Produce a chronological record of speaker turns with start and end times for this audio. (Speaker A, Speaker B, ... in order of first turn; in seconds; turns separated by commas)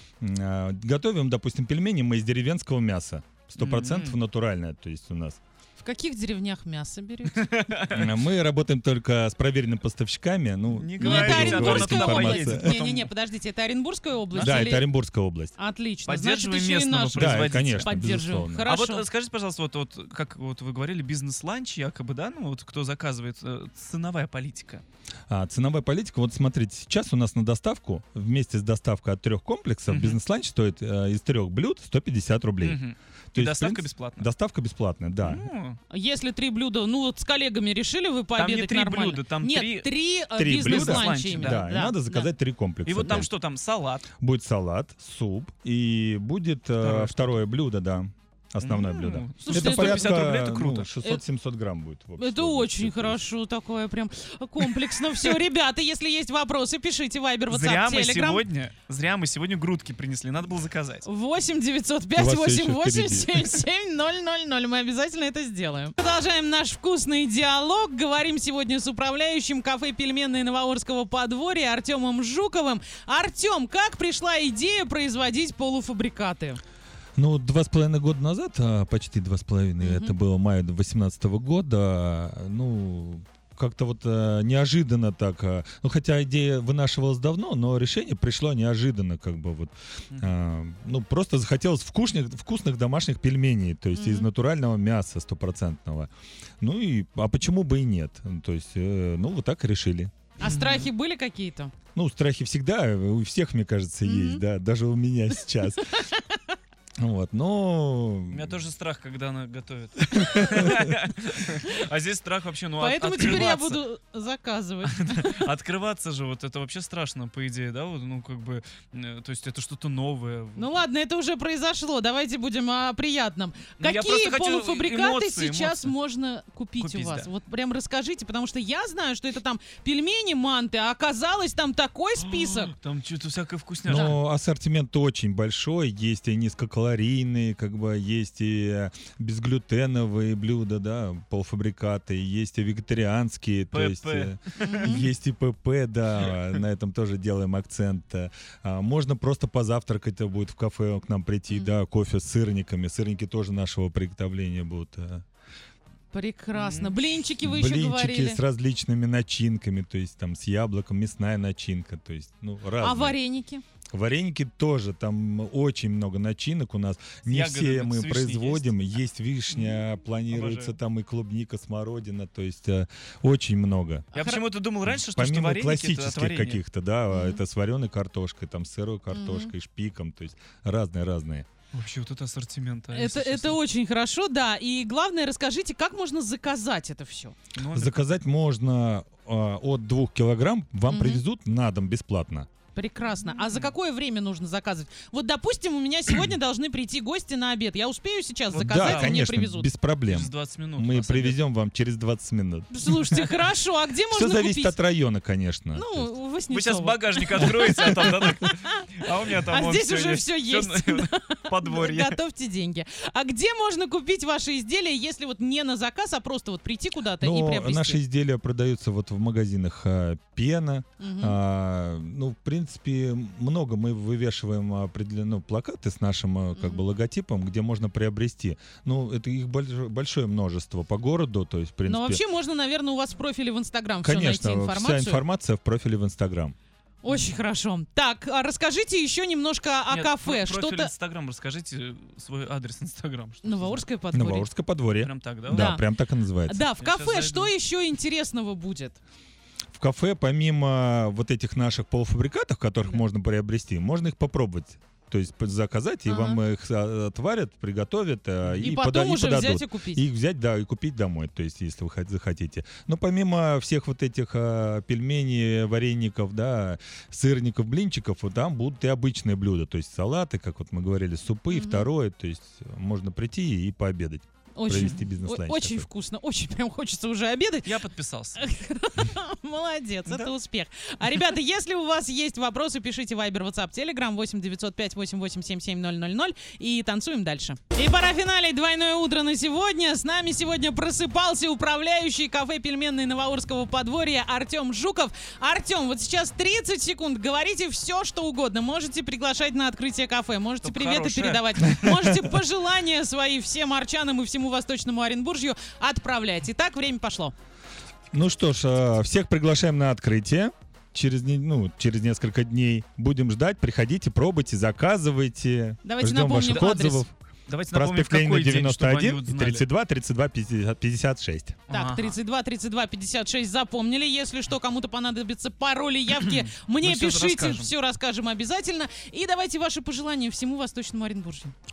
Speaker A: 0.2-5.4, Speaker B: 3.6-4.2, Speaker C: 5.8-7.5, Speaker B: 7.3-8.1, Speaker A: 7.9-12.8, Speaker B: 10.7-13.1, Speaker C: 11.0-14.8, Speaker B: 14.3-14.7, Speaker A: 14.4-15.5, Speaker C: 15.6-19.0, Speaker B: 16.1-24.8, Speaker A: 17.1-18.7, Speaker A: 25.3-32.8, Speaker B: 29.9-30.2, Speaker B: 32.6-34.3, Speaker A: 33.3-35.5, Speaker B: 35.2-35.8, Speaker C: 35.9-42.3, Speaker B: 38.4-39.9, Speaker A: 40.4-43.3, Speaker B: 40.5-41.6, Speaker B: 42.8-44.1, Speaker A: 44.2-53.2, Speaker B: 46.8-47.4, Speaker B: 48.6-50.9, Speaker C: 49.4-50.2, Speaker C: 52.2-58.4, Speaker B: 54.9-55.4, Speaker B: 57.5-61.0, Speaker C: 61.0-76.6, Speaker A: 62.1-63.6, Speaker A: 77.2-96.1, Speaker C: 79.8-80.1, Speaker C: 93.9-94.3, Speaker A: 96.6-100.1, Speaker C: 100.4-101.7, Speaker B: 100.4-100.9, Speaker A: 101.9-106.0, Speaker C: 104.0-104.4, Speaker A: 107.0-108.6, Speaker B: 108.3-113.8, Speaker A: 110.2-110.7, Speaker C: 112.8-115.5, Speaker B: 114.8-120.8, Speaker C: 120.5-132.7, Speaker B: 123.8-125.9, Speaker B: 126.8-127.3, Speaker B: 132.2-134.2, Speaker A: 133.8-155.2, Speaker C: 133.9-134.2, Speaker B: 143.7-145.0, Speaker C: 144.6-145.1, Speaker C: 156.1-158.4, Speaker B: 156.5-157.0, Speaker A: 157.4-163.2, Speaker C: 162.8-163.6, Speaker A: 163.9-174.1, Speaker B: 167.2-168.8, Speaker B: 169.5-170.8, Speaker B: 174.1-176.6, Speaker C: 174.1-174.4, Speaker A: 174.8-181.5, Speaker C: 177.1-177.4, Speaker C: 179.1-179.5, Speaker B: 181.7-183.6, Speaker C: 182.9-187.3, Speaker B: 187.5-188.0, Speaker A: 187.7-192.5, Speaker C: 190.9-191.2, Speaker C: 192.7-199.7, Speaker B: 193.2-193.7, Speaker B: 198.5-199.2, Speaker A: 198.6-203.0, Speaker B: 200.1-201.4, Speaker C: 202.7-204.8, Speaker A: 204.1-206.1, Speaker C: 205.7-208.8, Speaker B: 206.5-212.2, Speaker C: 209.5-218.0, Speaker A: 217.2-232.2, Speaker C: 221.0-221.4, Speaker C: 226.5-226.8, Speaker C: 231.8-235.2, Speaker A: 234.0-236.5, Speaker C: 237.0-240.9, Speaker B: 237.1-237.4, Speaker B: 239.9-243.8, Speaker C: 243.4-244.5, Speaker A: 244.1-246.6, Speaker B: 245.0-245.7, Speaker C: 245.5-245.8, Speaker C: 246.4-249.0, Speaker B: 246.8-247.5, Speaker A: 249.7-275.9, Speaker C: 256.1-256.4, Speaker C: 258.6-260.0, Speaker C: 271.5-271.9, Speaker C: 274.6-307.3, Speaker B: 277.6-278.4, Speaker B: 300.6-301.6, Speaker A: 301.8-302.2, Speaker A: 308.1-317.1, Speaker C: 315.8-317.1, Speaker B: 316.5-316.9, Speaker B: 317.5-319.6, Speaker A: 317.7-321.6, Speaker B: 321.7-322.1, Speaker C: 321.7-331.5, Speaker B: 326.2-327.7